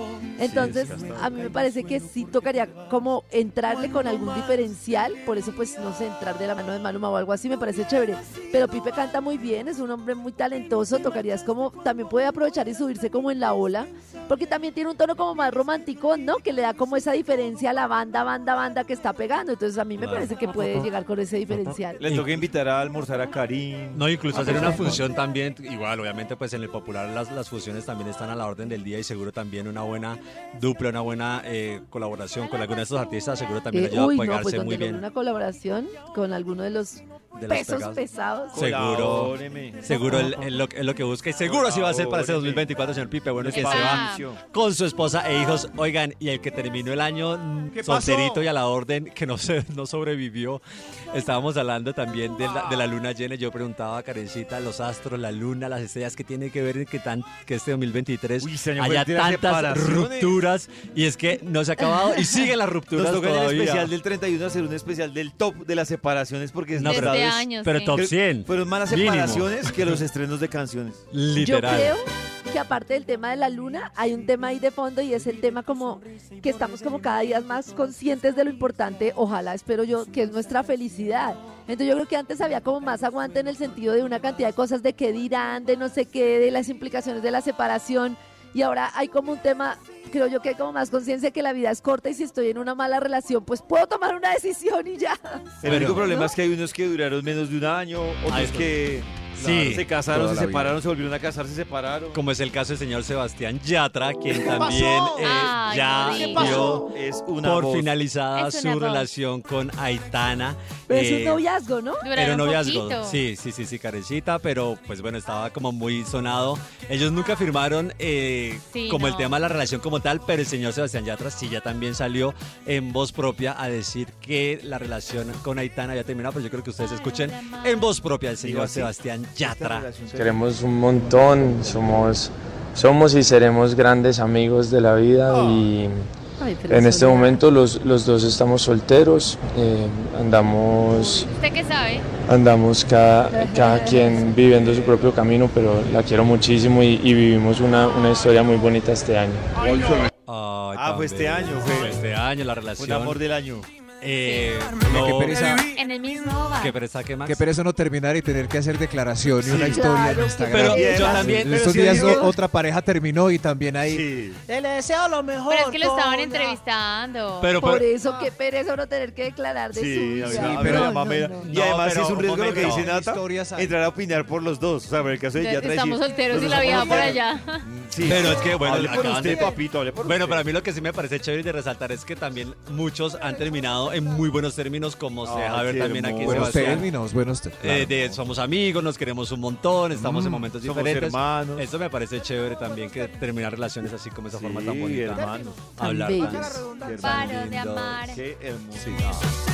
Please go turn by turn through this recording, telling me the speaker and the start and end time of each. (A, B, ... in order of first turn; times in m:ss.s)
0:00.4-0:22.0 A
0:00.4-0:01.7 B
0:20.0-0:20.3 C
0:22.0-0:25.1 B
0:22.0-0:22.4 C
0:23.9-0:35.0 C
0:33.7-0:38.6 A
0:37.4-0:38.0 C
0:38.5-0:40.5 B
0:38.5-1:03.9 C
0:39.9-0:40.4 A
0:41.4-0:42.7 B
0:43.4-0:44.4 B
0:43.5-0:44.3 D
0:47.8-0:48.4 B
0:58.4-1:00.4 B
1:02.9-1:11.0 B
1:06.7-1:10.0 C
1:06.8-1:08.0 D
1:11.1-1:12.0 C
1:11.4-1:36.3 A
1:35.6-1:42.2 B
1:35.6-1:36.1 C
1:38.3-1:40.8 C
1:42.1-1:51.4 C
1:44.4-1:45.4 E
1:45.2-1:46.8 D
1:46.0-1:46.9 E
1:46.3-1:47.9 B
1:48.4-1:49.1 D
1:50.9-1:52.0 A
1:52.0-1:53.2 D
1:52.1-2:09.9 C
1:58.7-1:59.4 D
2:07.3-2:07.8 D
2:08.4-2:08.9 B
2:09.4-2:10.4 B
2:10.1-2:16.1 F
2:15.3-2:15.7 B
2:16.4-2:17.4 A
2:16.7-2:21.3 F
2:20.9-2:21.3 A
2:21.3-2:22.1 D
2:22.3-2:29.7 F
2:23.3-2:24.3 A
2:24.4-2:25.1 C
2:29.6-2:30.1 E
2:29.7-2:30.1 B
2:30.3-2:33.2 C
2:30.7-2:32.0 B
2:32.8-2:33.7 B
2:34.0-2:35.6 C
2:34.2-2:34.6 D
2:34.8-2:35.7 G
2:35.4-2:36.8 D
2:36.6-2:37.4 C
2:37.2-2:44.1 G
2:39.4-2:39.8 B
2:39.6-2:41.2 A
2:40.5-2:42.3 C
2:40.6-2:42.4 B
2:43.8-2:44.4 B
2:44.5-2:46.6 E
2:45.5-2:47.6 D
2:47.4-2:47.9 C
2:47.6-2:51.5 A
2:49.7-3:00.5 B
2:50.3-2:51.2 G
2:51.5-2:52.9 C
2:52.2-2:53.8 G
2:55.4-2:57.7 D
2:58.0-3:06.9 C
3:05.2-3:06.9 B
3:06.2-3:08.2 G
3:07.6-3:18.2 C
3:10.0-3:10.5 G
3:10.6-3:11.7 B
3:14.3-3:15.6 B
3:15.8-3:16.5 A
3:16.1-3:17.0 E
3:16.8-3:17.4 B
3:17.0-3:18.2 D
3:18.1-3:19.3 B
3:18.8-3:19.1 G